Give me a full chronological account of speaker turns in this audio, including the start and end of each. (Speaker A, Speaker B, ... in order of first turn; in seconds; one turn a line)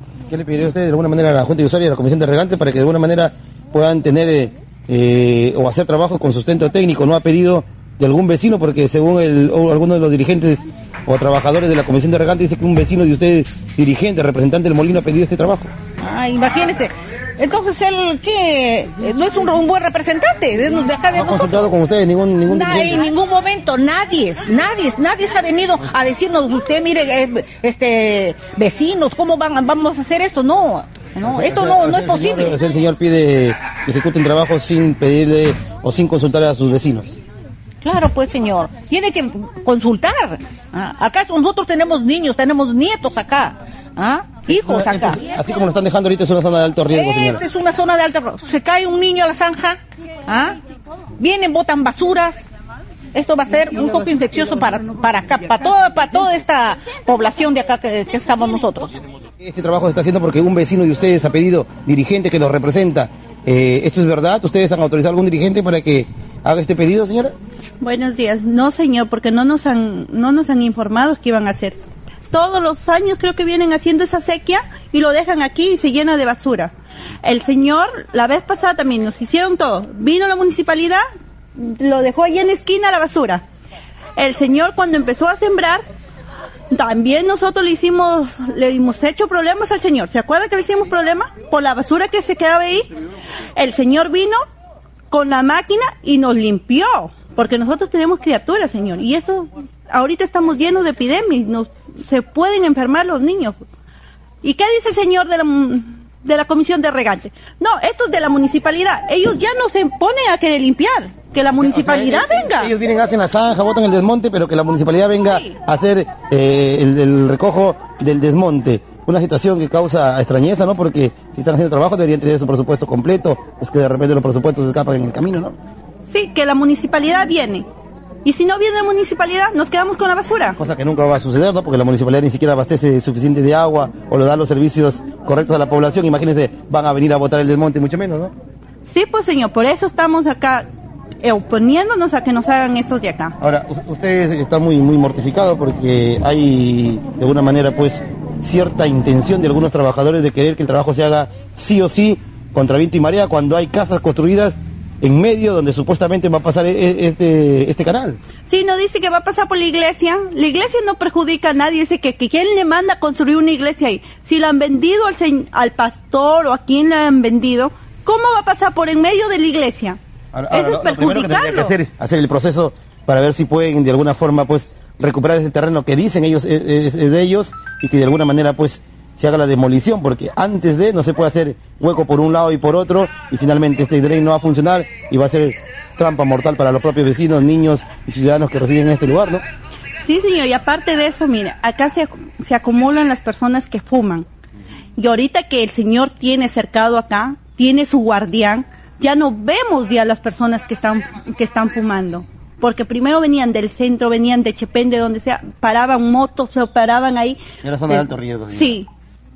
Speaker A: 0.3-15.7
Speaker B: 16.0-21.7
Speaker A: 21.1-23.0
Speaker B: 22.5-32.6
Speaker A: 31.2-37.2
Speaker B: 37.8-45.2
Speaker A: 44.5-47.4
Speaker B: 46.9-50.6
Speaker B: 51.2-52.5
Speaker B: 53.1-58.9
Speaker A: 59.4-67.3
Speaker C: 67.8-76.7
Speaker C: 77.2-81.0
Speaker C: 81.6-83.4
Speaker C: 84.2-85.9
Speaker C: 86.7-92.9
Speaker C: 93.6-94.4
Speaker C: 95.1-103.6
Speaker C: 104.4-112.7
Speaker A: 111.5-125.6
Speaker B: 111.9-112.2
Speaker B: 115.3-115.6
Speaker C: 126.1-127.7
Speaker C: 128.2-130.6
Speaker A: 130.6-138.3
Speaker C: 138.9-140.7
Speaker C: 141.2-143.3
Speaker A: 143.4-158.2
Speaker C: 158.5-170.0
Speaker A: 170.3-189.4
Speaker C: 170.5-171.7
Speaker C: 190.0-194.3
Speaker C: 195.0-207.4
Speaker A: 207.6-208.8
Speaker C: 208.6-208.9